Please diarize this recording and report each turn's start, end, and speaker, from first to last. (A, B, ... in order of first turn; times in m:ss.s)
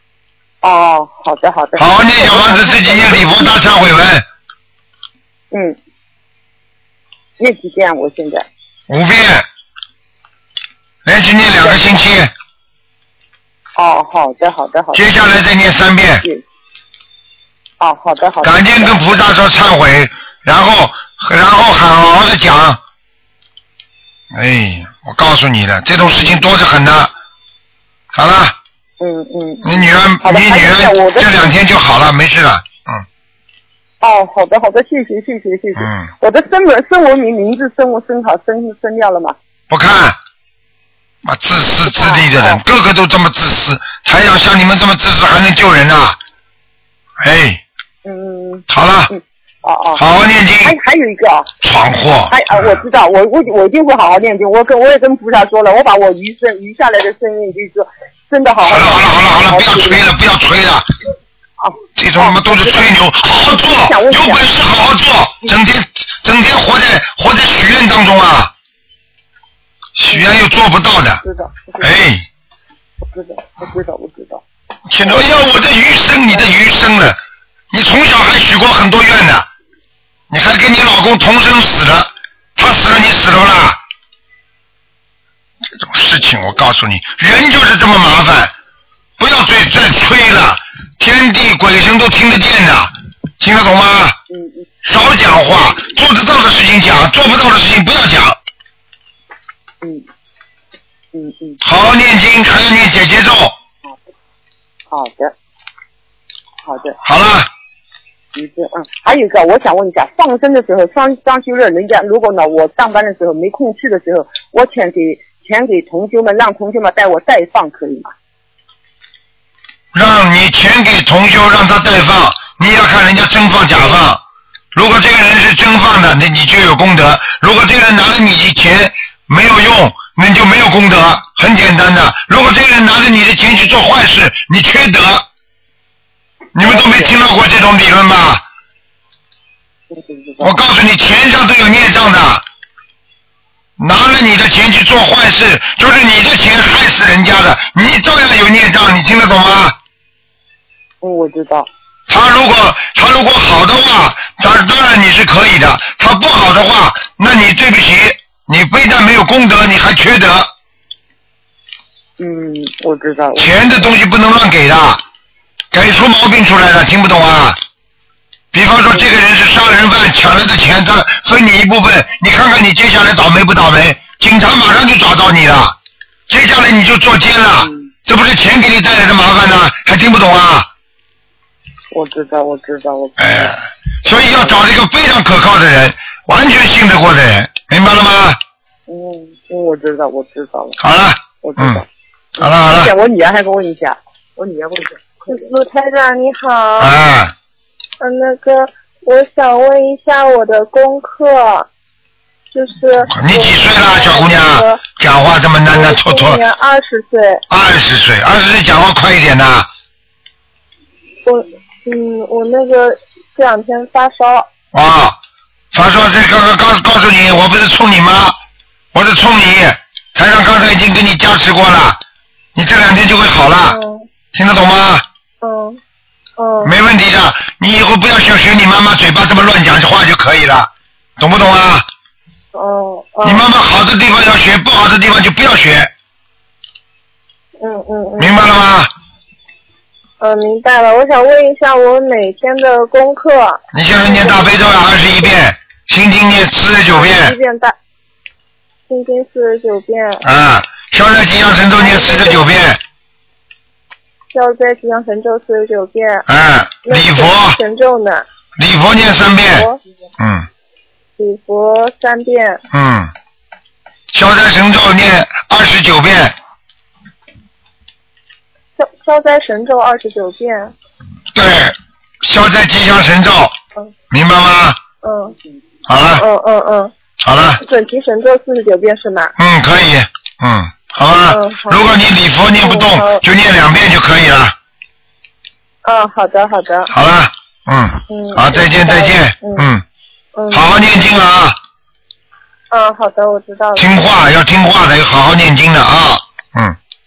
0:00.6-0:03.5 A
0:01.8-0:04.3 B
0:05.5-0:05.8 A
0:07.4-0:08.5 A
0:08.9-0:09.5 B
0:11.0-0:12.3 B
0:13.8-0:15.1 A
0:14.9-0:16.3 B
0:17.8-0:19.0 A
0:18.4-0:22.8 B
0:24.3-0:27.1 B
0:26.0-0:26.4 A
0:28.1-0:28.6 B
0:29.0-0:31.5 A
0:29.6-0:33.0 B
0:34.0-0:39.4 A
0:35.8-0:36.1 B
0:39.7-0:40.2 B
0:41.2-0:46.2 B
0:41.9-0:42.6 A
0:47.2-0:47.6 B
0:48.0-0:50.0 A
0:48.7-0:49.1 B
0:50.0-0:50.8 B
0:50.6-0:51.5 A
0:51.6-0:52.8 B
0:52.3-1:00.0 A
0:58.6-1:00.9 B
1:01.6-1:02.9 A
1:02.0-1:08.5 B
1:03.6-1:04.4 A
1:10.0-1:11.2 B
1:10.1-1:10.4 A
1:11.2-1:12.0 A
1:11.8-1:12.2 B
1:13.1-1:14.4 A
1:14.9-1:17.2 B
1:17.7-1:19.5 B
1:20.3-1:23.8 B
1:25.7-1:28.5 B
1:29.2-1:34.2 B
1:34.3-1:34.7 A
1:34.8-1:38.4 B
1:41.1-1:41.6 A
1:41.6-1:43.6 B
1:44.9-1:45.3 A
1:46.6-1:47.0 A
1:47.0-1:47.5 B
1:48.4-1:58.1 A
1:59.9-2:04.2 B
2:04.7-2:15.3 B
2:16.6-2:18.4 B
2:16.6-2:17.1 A
2:19.9-2:20.6 A
2:20.4-2:22.4 B
2:23.8-2:29.8 B
2:31.0-2:31.7 A
2:32.1-2:40.5 B
2:42.2-2:43.9 A
2:43.4-2:45.0 B
2:45.7-2:47.6 B
2:48.5-2:55.8 B
2:56.3-3:00.7 B
2:57.6-2:57.9 A
3:01.9-3:03.5 A
3:03.2-3:08.4 B
3:04.1-3:04.6 A
3:08.9-3:10.8 A
3:10.8-3:11.8 B
3:11.4-3:11.9 A
3:12.4-3:12.9 B
3:12.4-3:15.4 A
3:15.3-3:17.0 C
3:16.8-3:17.3 B
3:18.0-3:21.7 C
3:22.5-3:24.8 C
3:23.1-3:26.4 B
3:25.7-3:27.4 C
3:27.5-3:29.7 B
3:31.2-3:34.5 C
3:34.7-3:35.2 B
3:35.7-3:38.4 B
3:38.9-3:42.0 B
3:42.6-3:43.8 B
3:43.6-3:44.0 C
3:44.3-3:45.0 B
3:45.4-3:45.8 C
3:46.4-3:46.7 C
3:46.6-3:51.9 B
3:52.6-3:53.5 C
3:53.2-3:55.9 B
3:57.6-3:58.4 C
3:58.2-3:58.9 B
4:00.2-4:04.5 C
4:03.7-4:07.4 B
4:06.9-4:07.8 C
4:08.9-4:10.2 C
4:10.2-4:12.8 B
4:11.8-4:12.5 C
4:14.3-4:16.3 C
4:16.3-4:17.6 B
4:16.8-4:18.2 C
4:18.6-4:19.7 B
4:19.4-4:19.8 C
4:20.2-4:20.5 B
4:21.2-4:22.6 C
4:22.7-4:23.1 B
4:24.1-4:26.4 B
4:28.8-4:30.7 C
4:31.3-4:33.6 B
4:34.1-4:34.8 B
4:35.0-4:35.4 C
4:35.9-4:36.2 B
4:36.2-4:36.9 C
4:37.2-4:37.6 B
4:37.6-4:39.3 C
4:39.4-4:44.6 B
4:41.3-4:41.8 C
4:42.6-4:43.2 C
4:45.8-4:46.9 C
4:46.9-4:49.8 B
4:48.1-4:49.7 C
4:50.4-4:50.9 C
4:50.5-4:51.6 B
4:52.7-4:53.9 C
4:53.8-4:56.8 B